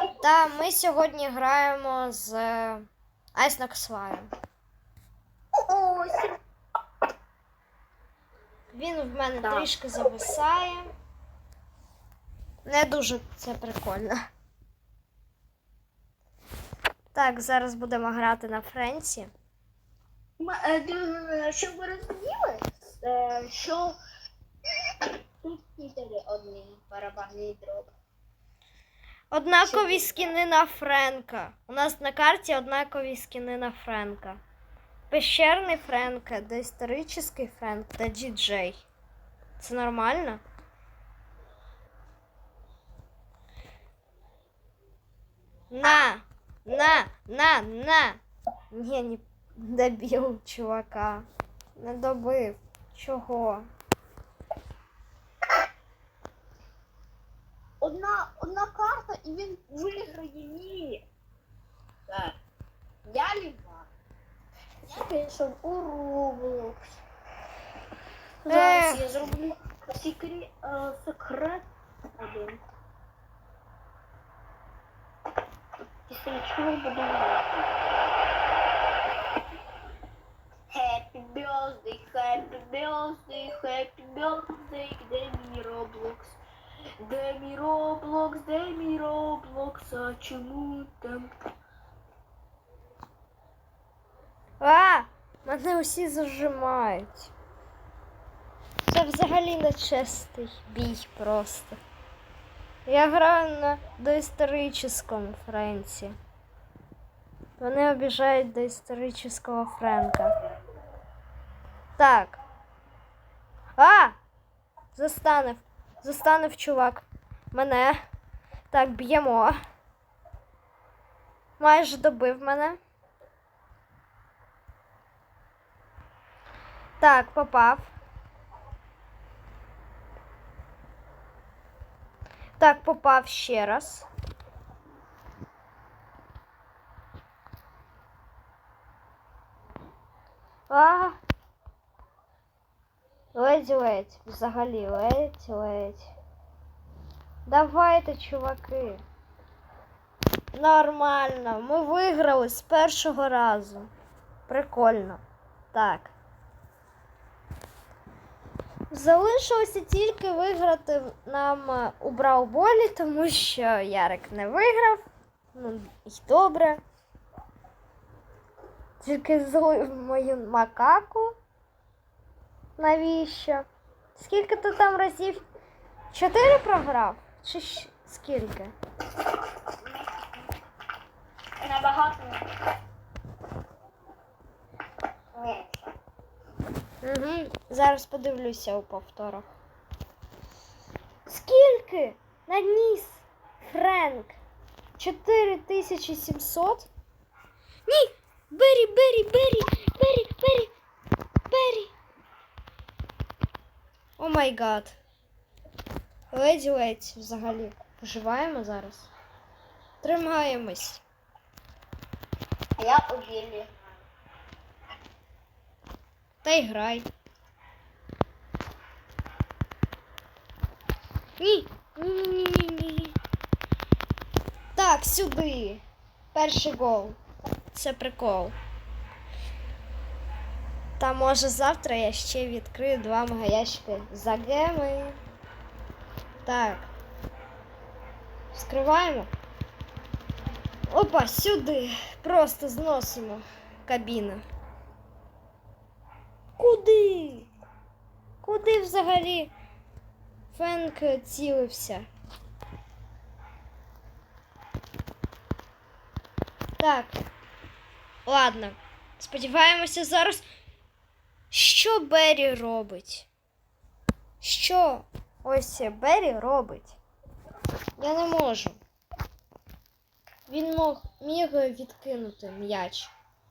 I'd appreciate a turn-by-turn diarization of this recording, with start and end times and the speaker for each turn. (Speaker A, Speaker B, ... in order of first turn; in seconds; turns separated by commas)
Speaker A: 0.2-4.3, Speaker B: 5.6-6.4, Speaker A: 8.7-10.9, Speaker B: 9.4-9.7, Speaker A: 12.6-14.2, Speaker A: 17.1-19.3, Speaker B: 20.4-23.9, Speaker B: 24.9-27.9, Speaker A: 29.3-34.4, Speaker B: 29.6-30.2, Speaker A: 35.1-38.8, Speaker A: 39.6-40.4, Speaker A: 45.7-48.2, Speaker A: 48.7-53.7, Speaker B: 57.8-61.0, Speaker B: 62.1-62.3, Speaker B: 63.0-63.9, Speaker B: 64.9-66.8, Speaker B: 68.4-71.7, Speaker A: 68.5-69.0, Speaker B: 72.2-72.6, Speaker B: 76.1-77.7, Speaker B: 80.7-86.4, Speaker B: 87.0-91.3, Speaker A: 94.6-97.3, Speaker A: 98.8-101.8, Speaker A: 102.9-106.2, Speaker A: 107.6-110.3, Speaker A: 112.0-112.4, Speaker A: 113.8-114.2, Speaker A: 114.9-118.0, Speaker A: 118.7-119.6, Speaker A: 121.6-122.8, Speaker A: 127.0-127.9, Speaker A: 132.6-134.1, Speaker A: 140.7-141.2, Speaker A: 143.3-146.1, Speaker A: 147.4-149.0, Speaker A: 150.5-153.9, Speaker A: 154.5-155.2, Speaker A: 155.7-156.1, Speaker A: 158.9-166.8, Speaker A: 169.0-171.3, Speaker A: 172.8-175.4, Speaker A: 176.1-178.7, Speaker B: 181.6-182.5, Speaker B: 185.3-185.9, Speaker A: 187.0-189.5, Speaker A: 191.3-194.4, Speaker A: 195.0-196.9, Speaker A: 197.8-200.7, Speaker A: 201.5-201.9, Speaker A: 204.2-205.0, Speaker A: 206.3-209.1, Speaker A: 210.0-211.0, Speaker B: 212.8-213.7, Speaker A: 216.4-217.1, Speaker A: 221.4-223.1, Speaker A: 224.7-225.8, Speaker A: 226.3-227.2, Speaker A: 227.7-228.5, Speaker A: 231.0-235.2, Speaker A: 236.4-236.9, Speaker A: 238.5-239.3, Speaker A: 240.9-244.4, Speaker A: 246.6-247.5, Speaker A: 248.4-249.5, Speaker A: 250.5-252.1, Speaker A: 256.8-257.2, Speaker A: 258.2-260.4, Speaker A: 261.5-263.3, Speaker A: 264.4-267.0, Speaker A: 268.0-268.8, Speaker A: 270.5-273.1